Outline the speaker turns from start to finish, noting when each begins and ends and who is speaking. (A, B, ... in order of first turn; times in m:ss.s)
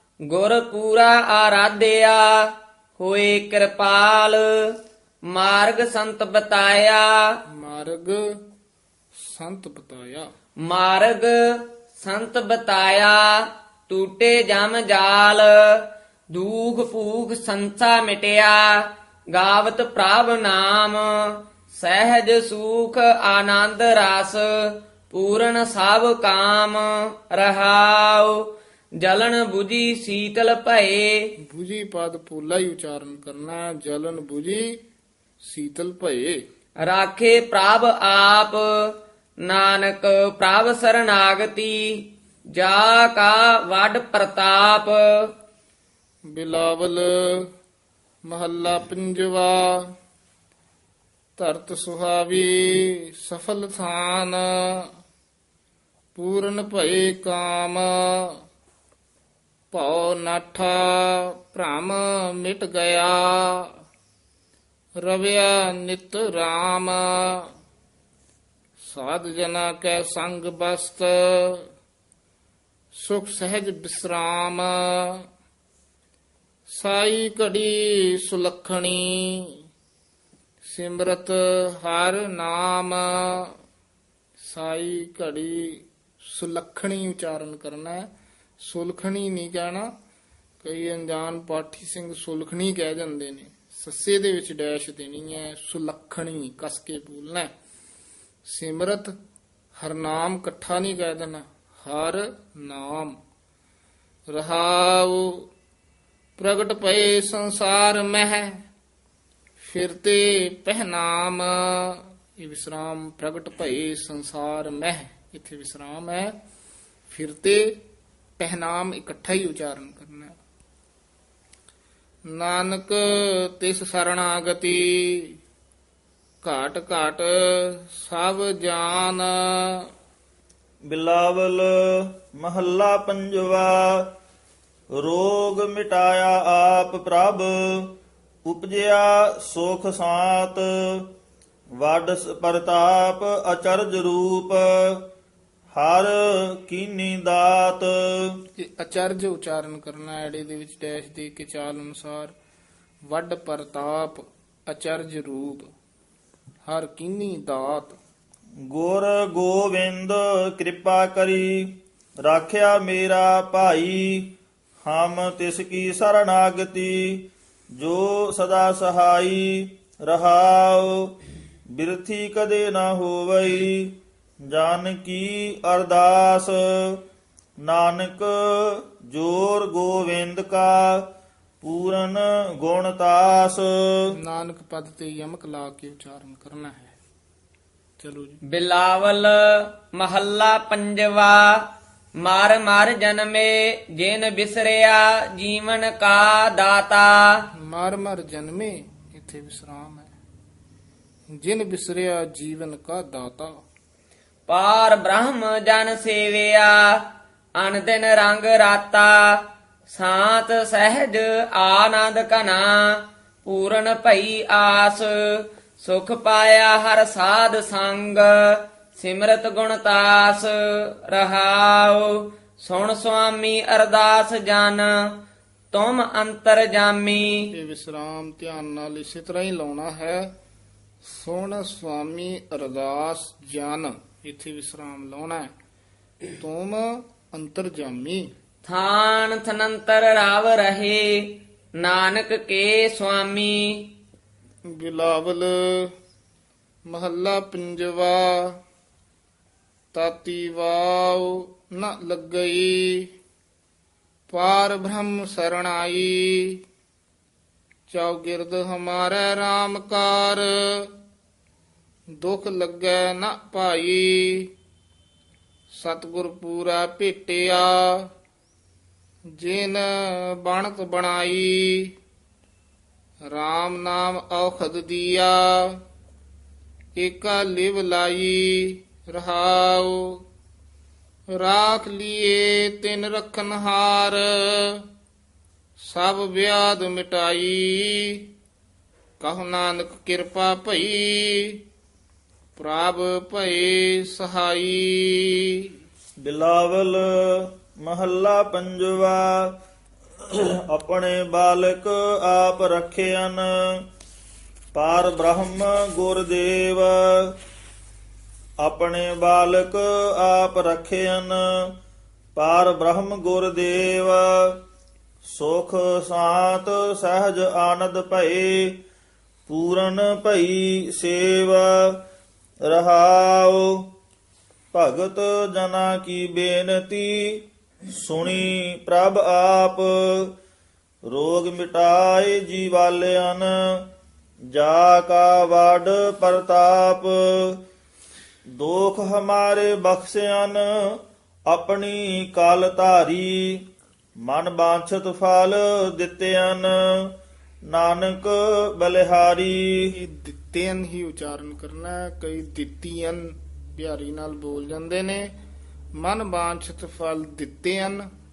0:00.3-0:04.7 A
0:05.3-0:07.2 A
0:07.5-0:08.3 B
0:09.1-0:10.3 B
0:10.7-0:28.4 A
0:29.0-0:31.3 A
0:31.4-0:34.8 B
0:35.4-0:36.4 B
0:36.8-0:38.6 A
0:39.4-0:45.3 A
0:46.3-0:47.5 B
0:48.3-0:49.9 B
0:51.4-0:54.9 B
0:56.1-0:58.4 B
0:59.7-1:03.7 B
1:05.0-1:07.4 B
1:08.8-1:11.6 B
1:12.9-1:15.2 B
1:16.7-1:19.6 B
1:20.6-1:23.5 B
1:24.4-1:28.1 B
1:28.6-1:29.9 B
1:30.6-1:37.5 B
1:38.4-1:39.1 B
1:39.8-1:43.2 B
1:44.3-1:45.5 B
1:46.4-1:48.6 B
1:49.6-1:56.4 B
1:57.1-1:57.8 B
1:58.4-2:00.3 B
2:02.3-2:05.3 B
2:06.4-2:09.8 B
2:10.9-2:14.1 C
2:14.9-2:17.9 C
2:18.4-2:21.1 C
2:21.8-2:25.0 C
2:25.7-2:28.3 C
2:28.6-2:32.3 B
2:33.1-2:35.7 B
2:36.6-2:38.0 B
2:38.7-2:51.1 C
2:51.7-2:53.9 C
2:54.5-2:57.0 C
2:57.6-3:01.0 C
3:01.6-3:04.0 C
3:04.2-3:06.9 B
3:08.0-3:08.4 B
3:08.5-3:11.6 A
3:12.2-3:17.3 A
3:17.6-3:20.1 B
3:21.3-3:23.6 B
3:24.5-3:45.2 A
3:45.7-3:47.4 A
3:47.5-3:50.3 B
3:51.0-3:55.5 B
3:56.4-3:58.3 B
3:58.6-4:03.9 A
4:04.7-4:05.9 B
4:06.8-4:08.6 B
4:09.9-4:13.1 B
4:14.3-4:16.6 B
4:17.9-4:20.9 B
4:22.2-4:24.5 B
4:25.7-4:28.1 B
4:29.4-4:31.9 B
4:33.3-4:35.8 B
4:36.9-4:40.2 B
4:41.3-4:44.9 B
4:45.8-4:48.2 B
4:49.2-4:51.6 B
4:52.6-4:55.7 B
4:56.2-4:59.5 C
5:00.3-5:03.8 C
5:04.7-5:07.4 C
5:08.6-5:11.7 C
5:12.4-5:14.6 C
5:15.2-5:18.8 C
5:19.5-5:22.0 C
5:22.6-5:23.8 C
5:24.7-5:30.3 C
5:31.1-5:33.8 C
5:34.5-5:37.6 C
5:38.6-5:41.0 C
5:41.5-5:43.6 C
5:44.2-5:47.1 C
5:47.7-5:49.9 C
5:49.9-5:55.3 B
5:56.0-5:58.0 B